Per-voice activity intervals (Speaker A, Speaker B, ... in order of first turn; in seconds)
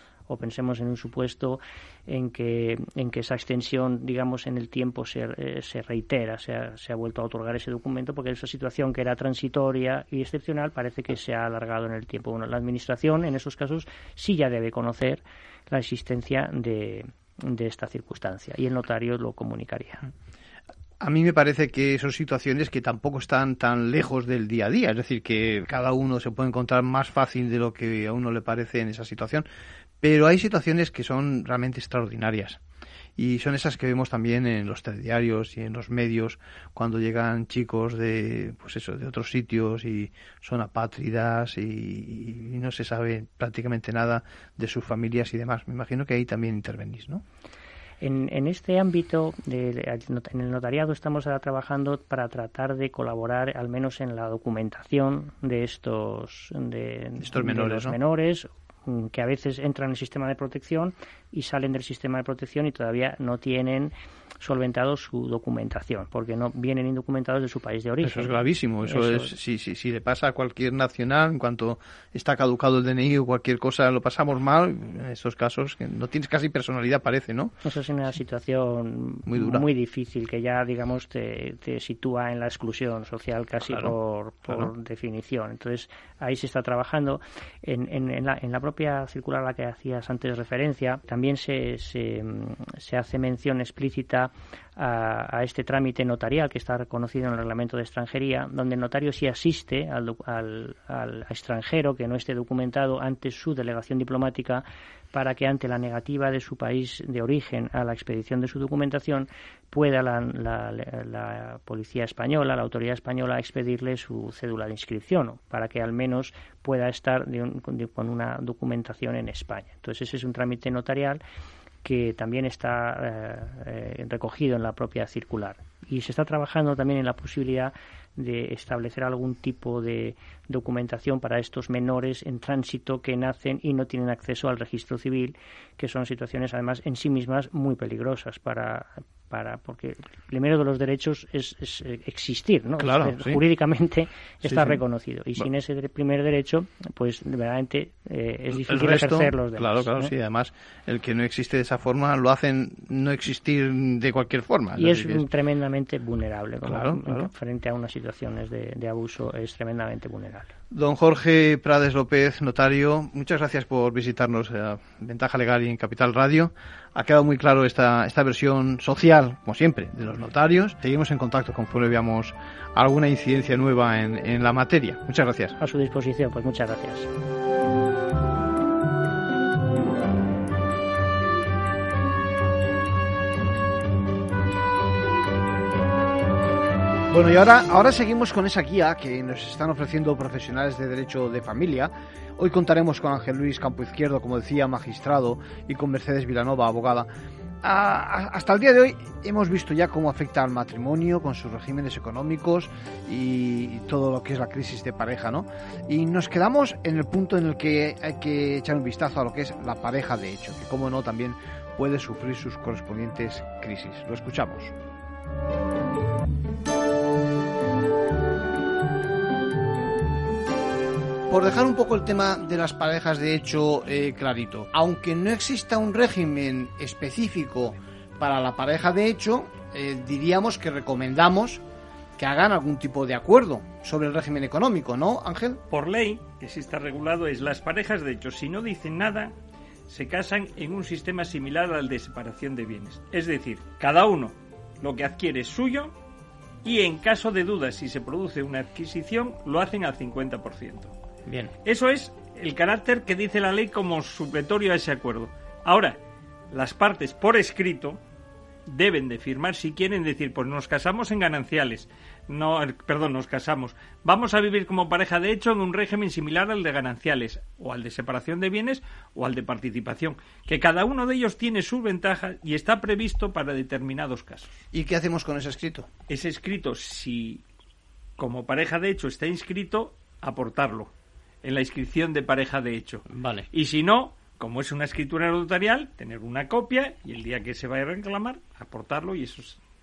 Speaker A: 0.3-20.0, 48.0-68.3, 68.8-69.3, 77.6-121.2, 121.8-150.1, 154.8-160.5, 175.6-177.1
Speaker B: 21.0-29.5, 30.0-32.6, 33.2-47.2, 57.2-58.0, 68.0-77.6, 79.3-79.7, 83.6-83.9, 142.8-143.4, 144.4-144.8, 148.5-155.2, 156.6-157.3, 160.7-175.6, 187.1-197.1, 197.6-214.7, 221.3-231.6, 232.2-235.6, 251.3-251.5, 274.7-275.9, 283.1-283.5
Speaker C: 235.7-239.3, 239.9-245.9, 246.6-250.9, 251.7-256.0, 256.5-258.0, 258.7-274.6, 276.1-277.4, 278.2-280.9, 281.4-289.6